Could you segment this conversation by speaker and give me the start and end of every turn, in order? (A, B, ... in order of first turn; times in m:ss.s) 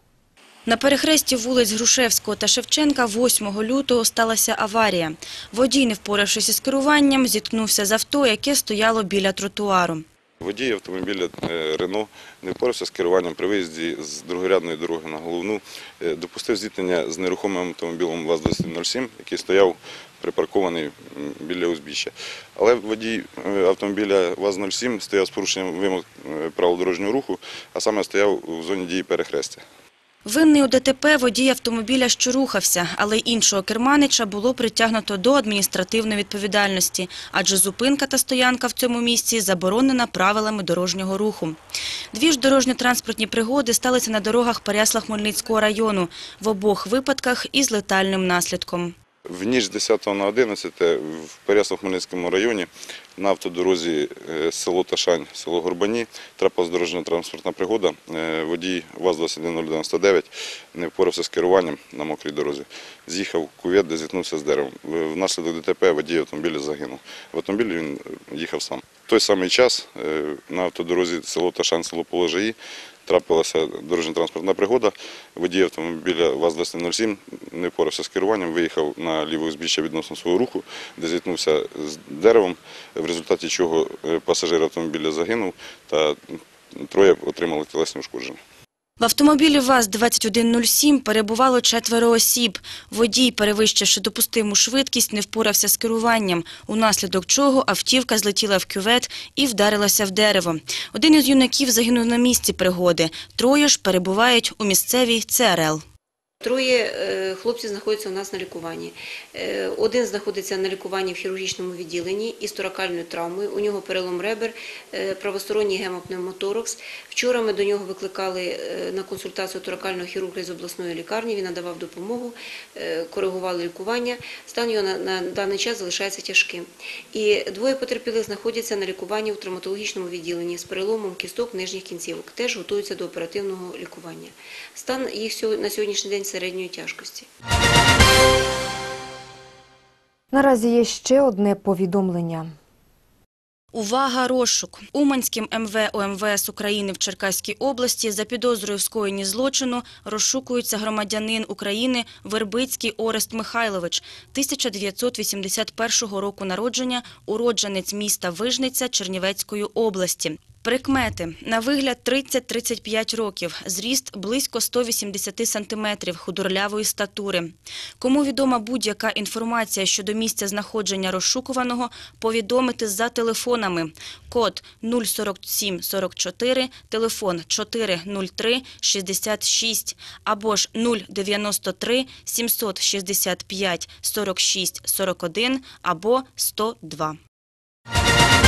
0:00.6-0:10.0 A
0:10.4-0:29.6 B
0:30.2-0:41.6 A
0:42.1-0:48.9 A
0:49.3-1:28.4 B
1:29.0-1:45.8 A
1:46.4-2:17.3 C
2:20.3-2:22.4 D
2:23.7-3:07.2 A